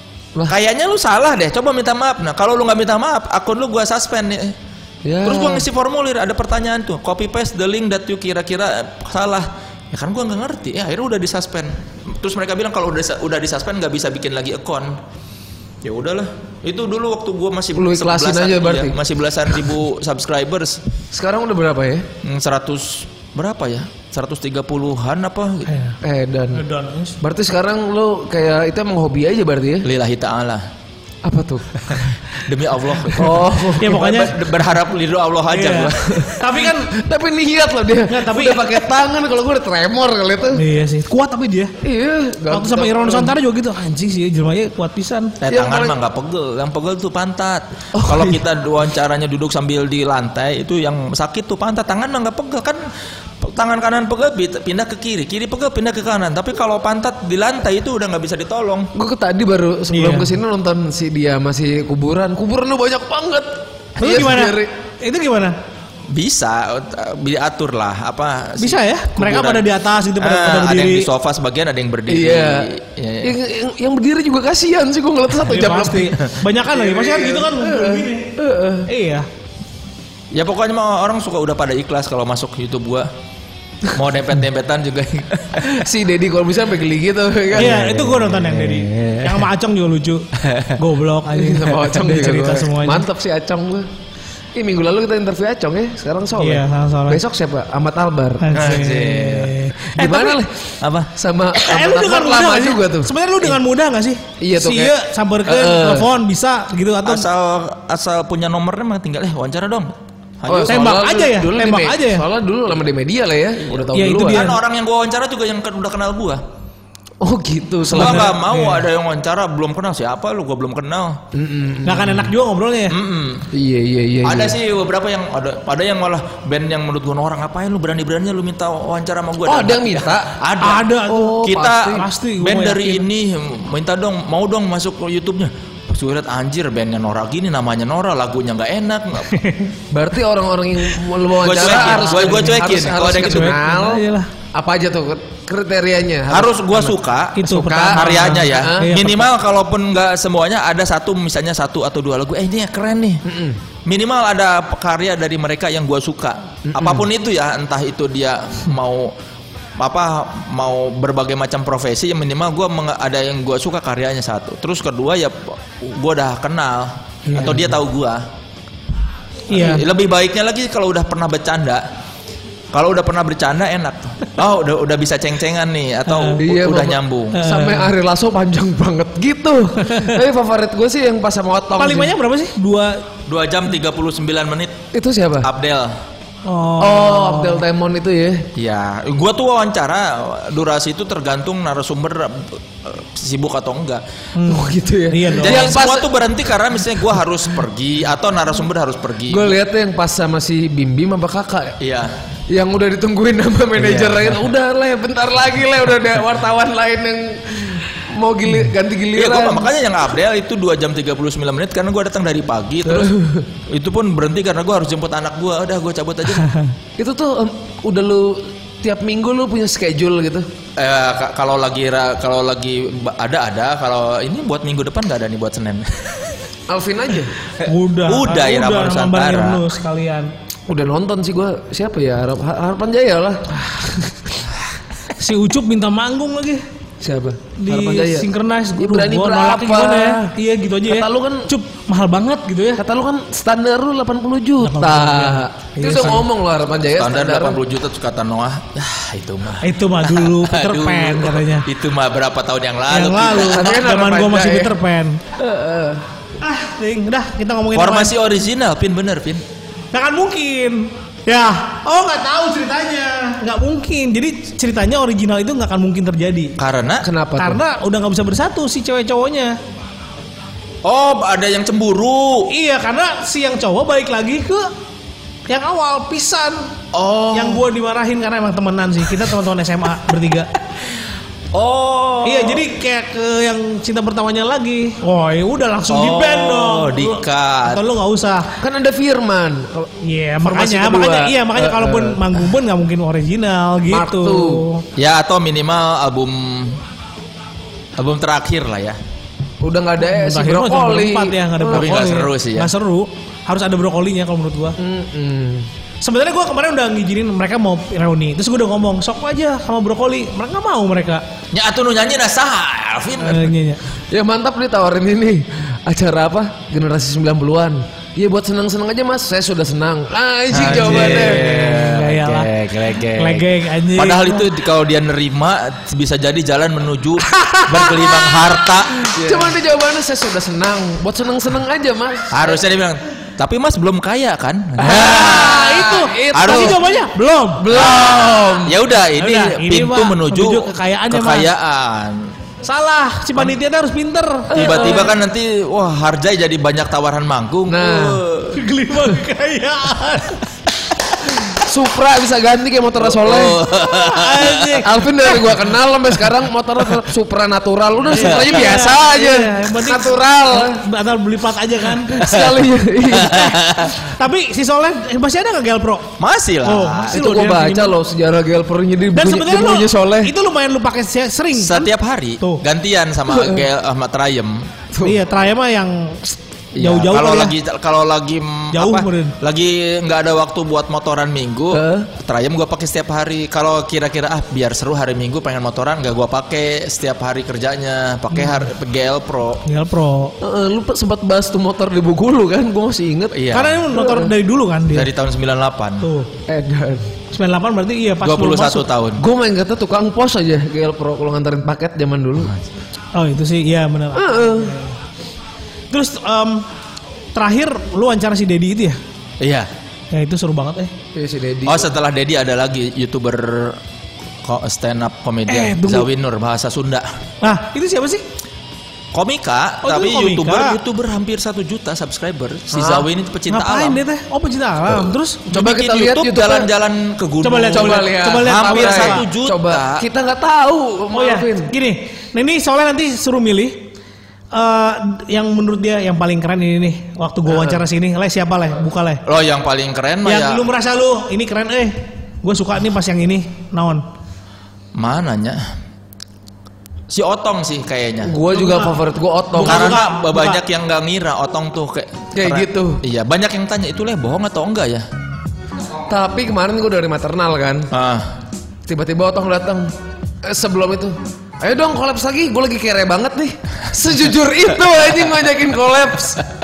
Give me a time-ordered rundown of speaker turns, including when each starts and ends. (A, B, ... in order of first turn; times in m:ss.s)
0:00.5-0:04.5 A
0:05.0-0:05.6 B
0:05.2-0:15.0 A
0:15.8-0:20.8 A
0:17.7-0:19.0 B
0:21.1-0:22.1 B
0:22.2-0:25.7 A
0:25.7-0:26.0 C
0:26.0-0:26.6 B
0:26.5-0:27.2 C
0:27.2-0:29.9 B
0:29.8-0:30.6 A
0:31.2-0:31.7 B
0:31.9-0:36.3 A
0:33.1-0:34.1 B
0:33.8-0:34.3 C
0:35.5-0:36.9 C
0:36.9-0:40.6 B
0:38.1-0:38.6 C
0:40.6-0:41.7 C
0:41.8-0:43.3 B
0:42.5-0:45.3 C
0:45.4-0:52.8 A
0:45.5-0:46.0 B
0:47.9-0:48.4 B
0:53.4-0:58.9 A
0:58.9-1:04.7 B
0:59.9-1:00.3 C
1:04.0-1:05.6 C
1:06.1-1:09.7 A
1:08.6-1:11.0 C
1:10.2-1:13.3 A
1:12.1-1:12.7 B
1:13.2-1:16.1 B
1:15.5-1:18.2 C
1:16.8-1:18.9 B
1:18.9-1:19.2 C
1:20.3-1:23.1 A
1:23.9-1:25.8 A
1:25.6-1:27.9 B
1:27.5-1:29.4 A
1:27.6-1:30.2 C
1:30.4-1:30.8 A
1:30.8-1:33.0 C
1:31.3-1:33.9 B
1:34.5-1:38.5 B
1:36.4-1:37.2 C
1:38.4-1:40.4 C
1:38.5-1:39.6 A
1:39.9-1:43.6 B
1:40.8-1:41.1 A
1:41.6-1:47.2 C
1:44.4-1:46.1 B
1:47.0-1:50.9 A
1:50.4-1:54.5 B
1:50.7-1:52.2 C
1:53.9-1:54.6 C
1:54.3-1:56.4 A
1:57.2-1:58.4 B
1:57.9-2:01.2 A
1:57.9-1:58.8 C
2:01.3-2:02.3 B
2:01.8-2:02.9 C
2:02.9-2:03.5 A
2:03.5-2:04.6 B
2:04.2-2:10.9 A
2:09.4-2:10.3 B
2:10.6-2:13.0 C
2:11.0-2:12.0 B
2:11.4-2:19.3 A
2:19.3-2:19.7 C
2:19.9-2:24.0 B
2:21.4-2:23.6 A
2:21.7-2:22.4 C
2:23.2-2:24.3 C
2:24.5-2:29.1 B
2:26.3-2:33.2 A
2:27.4-2:29.2 C
2:33.2-2:33.6 B
2:33.9-2:39.1 A
2:36.7-2:37.0 B
2:39.8-2:48.2 A
2:49.5-2:49.8 C
2:49.5-2:51.8 A
2:52.7-2:57.4 A
2:56.1-2:56.4 C
2:56.4-3:02.1 B
2:57.3-2:57.9 C
2:59.8-3:00.2 C
3:01.8-3:03.0 C
3:03.3-3:04.8 A
3:04.9-3:05.5 B
3:05.4-3:05.9 A
3:06.5-3:07.6 C
3:06.8-3:08.5 B
3:08.6-3:14.0 A
3:14.4-3:15.7 C
3:14.5-3:16.1 B
3:15.4-3:19.6 A
3:19.3-3:21.7 B
3:21.8-3:22.1 A
3:22.5-3:29.7 B
3:23.8-3:24.4 A
3:29.1-3:33.1 A
3:32.8-3:33.5 B
3:33.7-3:36.5 A
3:37.0-3:40.5 B
3:40.8-3:46.3 A
3:46.7-3:47.3 B
3:47.6-3:50.3 C
3:47.6-3:49.7 A
3:50.7-3:54.4 B
3:55.2-3:56.6 C
3:57.0-4:00.3 B
3:57.6-4:02.8 C
4:00.8-4:01.5 B
4:02.8-4:07.6 B
4:04.6-4:06.2 C
4:07.0-4:13.8 A
4:09.6-4:11.6 C
4:12.9-4:15.2 C
4:13.4-4:14.8 B
4:15.4-4:16.0 B
4:16.4-4:18.1 C
4:17.7-4:19.4 A
4:19.9-4:26.5 C
4:26.6-4:27.0 A
4:27.0-4:27.6 B
4:27.4-4:29.5 C
4:30.8-4:32.5 A
4:32.5-4:34.7 C
4:35.5-4:36.6 C
4:36.9-4:37.6 A
4:37.3-4:40.5 C
4:41.5-4:42.6 A
4:42.2-4:48.5 C
4:45.9-4:47.8 A
4:48.6-4:49.9 B
4:50.0-4:54.8 C
4:50.4-4:52.4 B
4:53.9-4:54.6 B
4:55.0-4:56.8 A
4:58.0-4:59.0 A
4:59.6-5:01.9 B
5:00.0-5:04.8 C
5:01.7-5:02.7 A
5:04.8-5:05.7 B
5:06.0-5:11.2 C
5:11.5-5:13.5 A
5:13.2-5:13.8 C
5:14.1-5:21.8 B
5:20.5-5:29.4 A
5:20.9-5:22.5 C
5:23.1-5:24.4 C
5:27.3-5:27.7 C
5:29.1-5:32.6 B
5:32.3-5:35.7 A
5:34.8-5:36.8 B
5:34.8-5:37.6 C
5:36.3-5:36.8 A
5:37.6-5:38.8 B
5:37.7-5:42.3 A
5:39.2-5:41.5 C
5:42.6-5:45.0 C
5:44.5-5:45.1 B
5:44.5-5:48.6 A
5:47.7-5:48.2 B
5:48.6-5:50.4 C
5:51.6-5:53.6 B
5:53.0-5:54.7 A
5:53.9-5:54.9 C
5:54.8-6:00.8 B
5:58.1-6:02.2 C
5:58.3-5:58.5 A
6:02.1-6:03.7 B
6:02.2-6:04.0 A
6:04.0-6:06.1 C
6:06.2-6:07.2 A
6:06.6-6:07.9 C
6:07.1-6:10.3 B
6:09.1-6:11.9 C
6:11.6-6:14.7 A
6:13.3-6:13.6 B
6:14.9-6:15.2 B
6:15.0-6:17.5 C
6:16.8-6:29.6 A
6:18.7-6:19.3 C
6:21.7-6:22.1 B
6:28.3-6:28.6 C
6:29.7-6:30.3 C
6:30.4-6:34.3 B
6:33.3-6:33.8 A
6:33.5-6:35.1 C
6:34.9-6:36.1 A
6:36.0-6:36.3 C
6:36.5-6:37.1 B
6:37.3-6:38.9 C
6:38.2-6:39.2 A
6:39.2-6:42.5 B
6:43.1-6:45.0 C
6:44.1-6:44.8 B
6:45.9-6:46.6 C
6:47.3-6:49.0 C
6:49.4-6:49.7 A
6:50.1-6:50.9 C
6:51.1-6:51.9 B
6:51.6-6:53.8 A
6:54.4-6:57.0 A
6:55.5-6:56.0 C
6:57.4-6:58.2 C
6:59.1-7:04.0 A
6:59.8-7:00.8 C
7:03.5-7:05.4 C
7:05.5-7:06.7 B
7:05.5-7:10.0 A
7:07.4-7:09.2 C
7:07.7-7:11.7 B
7:11.1-7:13.8 C
7:14.5-7:19.2 C
7:17.5-7:17.8 B
7:19.2-7:20.6 A
7:20.2-7:24.0 C
7:25.0-7:25.6 A
7:27.1-7:28.3 A
7:28.2-7:30.0 B
7:28.5-7:28.9 C
7:29.5-7:30.6 C
7:29.6-7:35.0 A
7:32.4-7:33.0 B
7:36.1-7:37.9 B
7:37.9-7:38.3 A
7:38.9-7:39.9 B
7:40.4-7:46.4 B